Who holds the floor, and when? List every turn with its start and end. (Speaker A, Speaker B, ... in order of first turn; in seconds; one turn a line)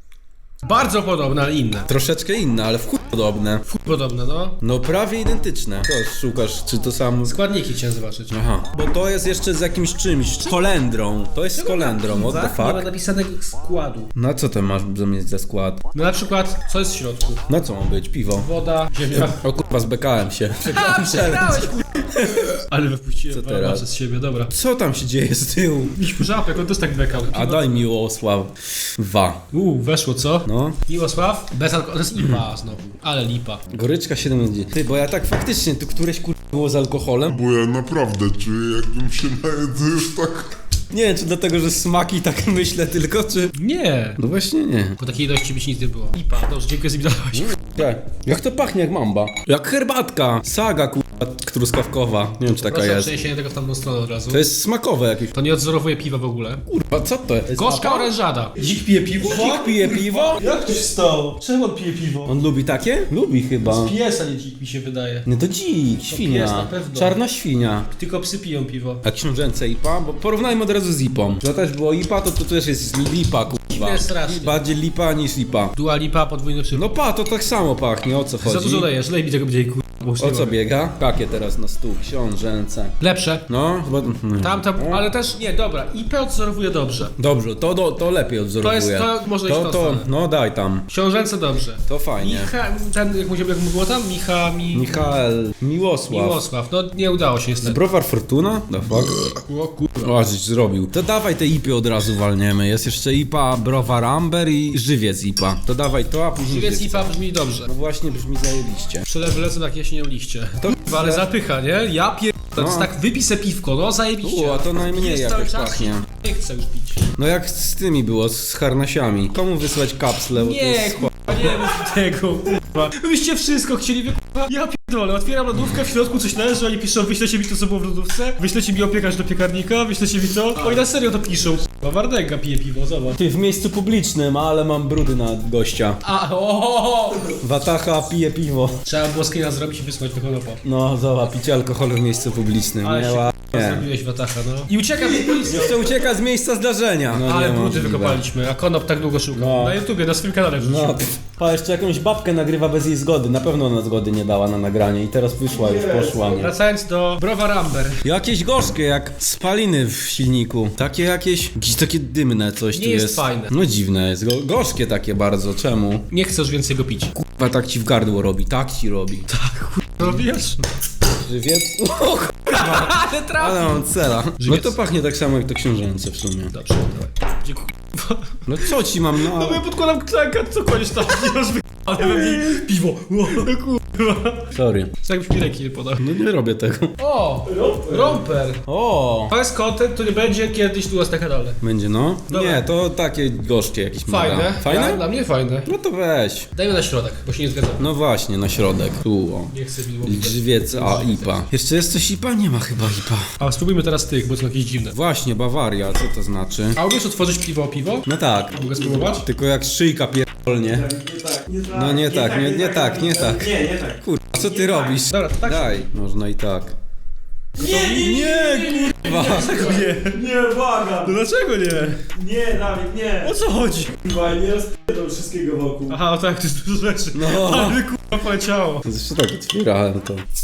Speaker A: 0.7-1.9
Speaker B: 1.9-3.6
Speaker A: 3.6-4.6
Speaker B: 4.6-7.4
Speaker A: 7.3-8.5
Speaker B: 8.3-12.9
Speaker A: 11.6-14.1
Speaker B: 14.2-15.8
Speaker A: 15.9-17.4
Speaker B: 17.5-18.5
Speaker A: 18.4-19.4
Speaker B: 19.1-22.6
Speaker A: 20.6-24.5
Speaker B: 23.3-23.8
Speaker B: 24.5-26.0
Speaker A: 26.0-27.9
Speaker B: 27.2-29.4
Speaker A: 29.5-33.6
Speaker B: 30.5-30.8
Speaker B: 33.7-37.4
Speaker C: 37.3-40.5
Speaker B: 40.9-43.5
Speaker A: 43.5-44.2
Speaker B: 44.2-45.0
Speaker A: 45.0-47.6
Speaker B: 47.3-53.1
Speaker A: 52.6-54.4
Speaker B: 54.3-55.3
Speaker A: 55.3-56.6
Speaker B: 56.7-58.1
Speaker A: 57.5-62.3
Speaker B: 59.2-60.5
Speaker B: 62.3-63.9
Speaker A: 63.6-65.3
Speaker B: 65.3-67.9
Speaker A: 66.0-67.2
Speaker A: 68.0-69.0
Speaker B: 69.0-75.7
Speaker A: 73.7-74.6
Speaker A: 75.8-76.9
Speaker B: 76.7-78.9
Speaker A: 78.4-80.6
Speaker B: 80.2-82.9
Speaker A: 83.0-83.4
Speaker B: 83.5-85.0
Speaker A: 84.4-87.1
Speaker B: 87.2-90.9
Speaker A: 88.6-90.1
Speaker A: 90.9-95.2
Speaker B: 91.9-92.5
Speaker B: 94.7-96.4
Speaker A: 96.1-97.8
Speaker B: 97.6-99.3
Speaker A: 99.4-100.2
Speaker B: 100.0-109.1
Speaker A: 106.4-107.7
Speaker A: 109.0-117.1
Speaker B: 110.6-111.3
Speaker B: 112.6-112.9
Speaker B: 114.2-116.1
Speaker B: 117.2-121.6
Speaker A: 120.3-133.2
Speaker B: 133.2-136.0
Speaker A: 136.0-137.4
Speaker B: 137.4-138.8
Speaker A: 138.8-140.6
Speaker B: 140.6-143.9
Speaker A: 142.8-145.9
Speaker B: 145.3-148.2
Speaker A: 147.1-151.1
Speaker B: 149.3-149.8
Speaker B: 150.6-156.5
Speaker A: 156.0-158.0
Speaker B: 158.0-166.1
Speaker A: 162.7-163.5
Speaker A: 166.1-167.2
Speaker B: 167.2-169.3
Speaker A: 169.3-170.7
Speaker B: 171.2-176.5
Speaker A: 172.5-174.8
Speaker A: 176.5-186.1
Speaker B: 178.5-179.6
Speaker B: 184.5-184.9
Speaker B: 186.0-186.9
Speaker A: 187.0-188.6
Speaker B: 188.7-189.3
Speaker A: 189.3-191.6
Speaker B: 191.6-195.0
Speaker A: 192.3-192.7
Speaker A: 194.1-195.7
Speaker B: 195.7-196.5
Speaker A: 196.5-197.8
Speaker B: 197.8-203.3
Speaker A: 199.5-201.5
Speaker A: 203.4-204.9
Speaker B: 204.9-206.8
Speaker A: 206.8-209.2
Speaker B: 208.1-210.9
Speaker A: 210.9-211.6
Speaker B: 211.7-216.7
Speaker A: 214.9-215.9
Speaker B: 217.6-219.9
Speaker A: 217.6-222.2
Speaker D: 222.2-223.1
Speaker A: 223.1-224.8
Speaker D: 224.7-225.8
Speaker A: 225.8-228.9
Speaker B: 227.1-227.8
Speaker B: 228.8-230.2